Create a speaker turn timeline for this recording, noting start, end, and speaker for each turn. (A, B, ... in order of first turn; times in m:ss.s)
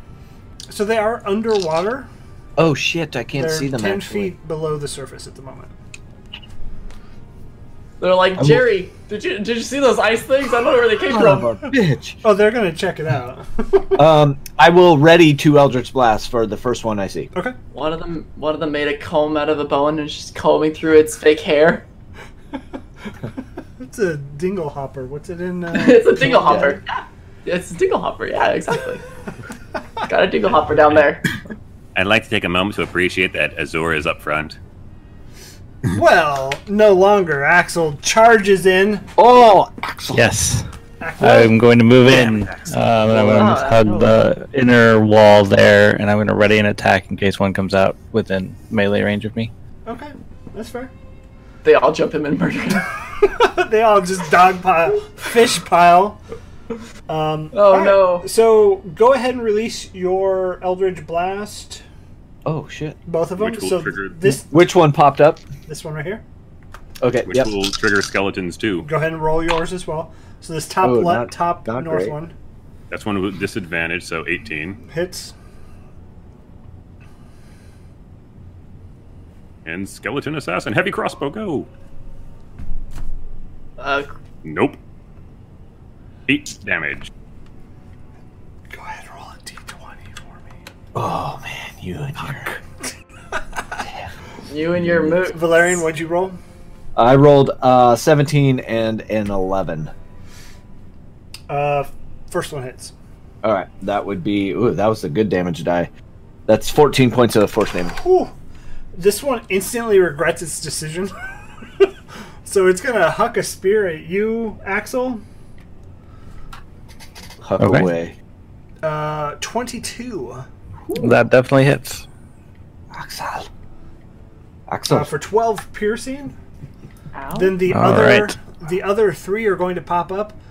0:00.7-0:02.1 A
0:02.6-0:04.3 B
0:03.3-0:05.7 A
0:08.0-0:11.6 C
0:08.4-0:08.7 B
0:11.0-0:12.2 B
0:12.2-0:14.0 A
0:14.0-0:17.3 B
0:17.7-0:21.8 C
0:23.8-0:26.6 A
0:25.7-0:29.0 C
0:26.2-0:26.8 B
0:30.1-0:31.2 C
0:31.9-0:34.6 D
0:35.9-0:39.0 A
0:39.2-0:40.3 B
0:40.1-0:40.7 E
0:41.0-0:41.5 A
0:41.2-0:49.5 E
0:43.1-0:44.0 B
0:43.3-0:44.1 C
0:49.8-0:50.9 A
0:51.6-0:52.9 C
0:53.2-0:56.2 A
0:57.1-1:01.8 A
0:57.5-0:58.3 C
1:02.4-1:03.0 B
1:03.0-1:04.6 A
1:03.4-1:04.2 F
1:04.5-1:05.4 B
1:05.7-1:06.2 A
1:07.0-1:07.5 B
1:07.2-1:08.9 F
1:08.8-1:12.3 A
1:10.8-1:12.2 B
1:12.9-1:14.8 F
1:14.9-1:15.3 A
1:19.6-1:21.7 F
1:23.8-1:24.1 C
1:24.4-1:24.8 F
1:26.3-1:27.1 F
1:28.7-1:30.5 A
1:30.9-1:32.6 B
1:34.5-1:35.8 C
1:34.8-1:35.2 B
1:35.3-1:36.4 A
1:37.0-1:39.9 B
1:41.5-1:42.9 A
1:43.4-1:45.9 B
1:46.5-1:48.0 B
1:48.0-1:48.3 A
1:48.9-1:51.1 A
1:52.4-1:55.2 A
1:57.4-1:58.1 B
1:57.6-1:57.9 E
1:58.8-2:00.4 A
2:01.0-2:02.0 E
2:02.9-2:03.5 B
2:04.7-2:05.1 B
2:04.9-2:06.3 A
2:07.1-2:07.6 C
2:07.3-2:10.4 A
2:07.6-2:08.4 E